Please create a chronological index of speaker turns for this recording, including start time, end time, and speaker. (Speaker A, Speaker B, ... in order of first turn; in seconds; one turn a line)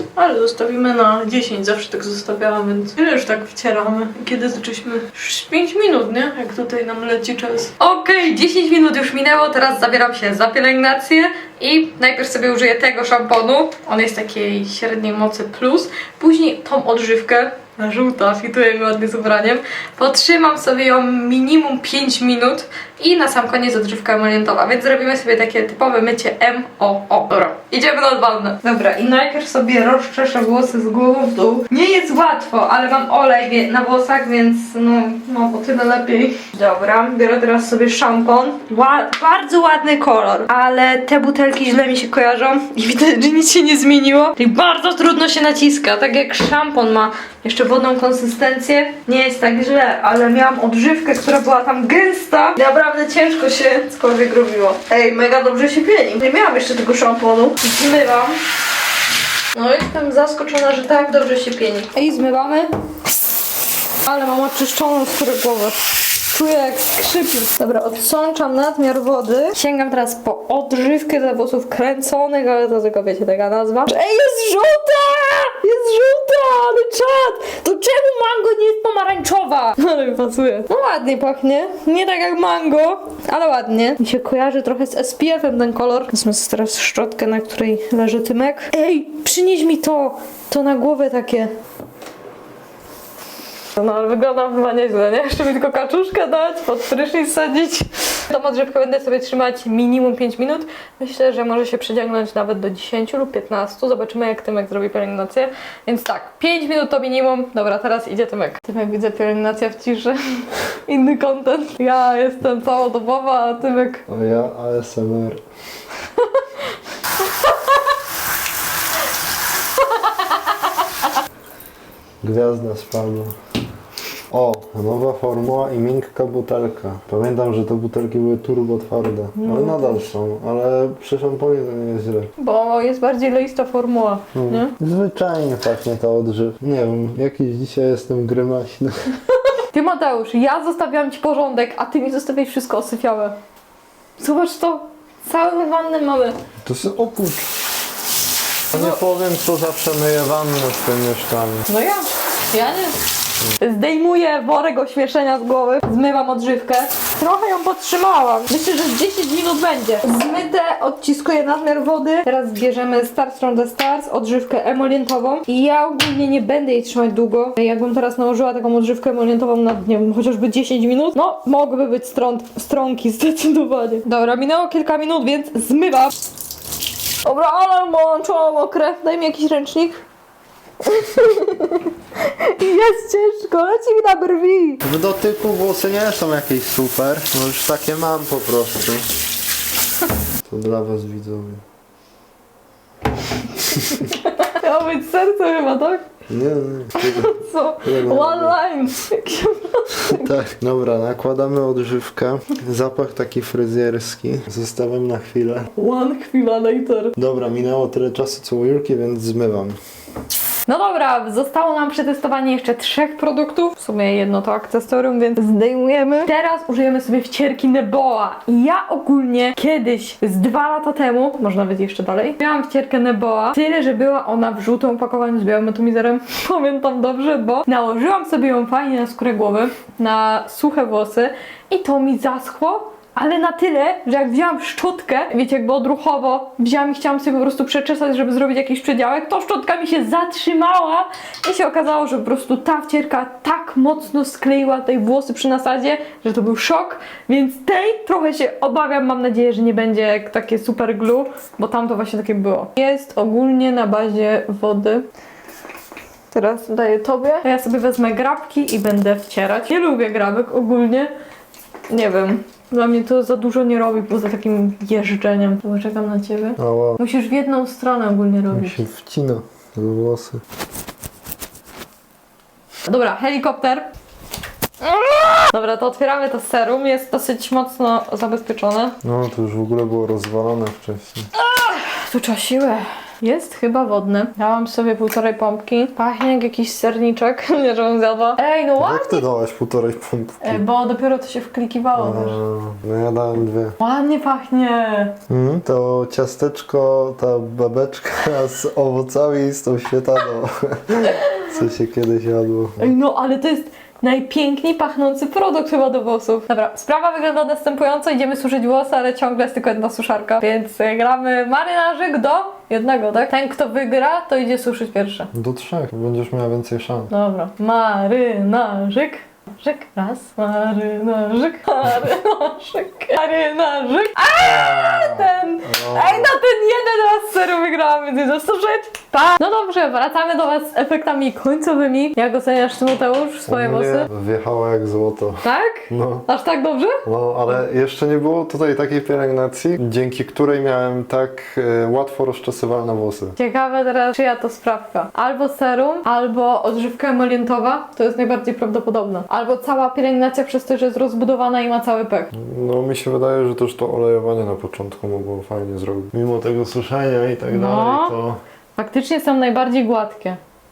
Speaker A: 0.1-58.4
Speaker A: 59.5-62.7
Speaker A: 64.0-91.5
Speaker A: 93.8-114.0
Speaker B: 114.1-115.4
Speaker A: 120.0-120.3
Speaker B: 122.2-123.3
Speaker B: 124.3-132.3
Speaker A: 129.4-130.1
Speaker A: 132.4-134.7
Speaker B: 134.3-139.0
Speaker A: 139.7-143.4
Speaker A: 144.2-146.4
Speaker B: 146.6-147.5
Speaker B: 148.7-151.7
Speaker A: 148.7-149.0
Speaker A: 151.7-153.0
Speaker A: 153.6-176.1
Speaker A: 177.2-180.0
Speaker A: 180.8-184.8
Speaker B: 184.8-189.0
Speaker B: 190.5-191.6
Speaker A: 193.7-196.1
Speaker B: 196.3-198.6
Speaker A: 197.0-200.3
Speaker B: 200.1-205.7
Speaker A: 205.7-207.1
Speaker B: 207.2-209.8
Speaker A: 210.7-255.1
Speaker A: 256.3-261.1
Speaker A: 261.9-268.8
Speaker B: 266.6-267.0
Speaker B: 268.5-270.4
Speaker A: 272.9-273.9
Speaker A: 274.8-279.0
Speaker B: 279.0-281.3
Speaker A: 281.3-289.2
Speaker B: 288.8-290.6
Speaker A: 290.4-292.4
Speaker B: 292.0-293.8
Speaker A: 293.8-295.1
Speaker B: 295.3-302.9
Speaker A: 301.0-301.4
Speaker A: 302.8-315.3
Speaker B: 315.3-317.1
Speaker A: 317.1-334.1
Speaker B: 324.4-326.4
Speaker B: 333.5-336.2
Speaker A: 335.4-337.0
Speaker B: 337.0-343.4
Speaker A: 343.4-352.3
Speaker B: 352.3-358.4
Speaker A: 357.5-358.1
Speaker A: 358.8-360.4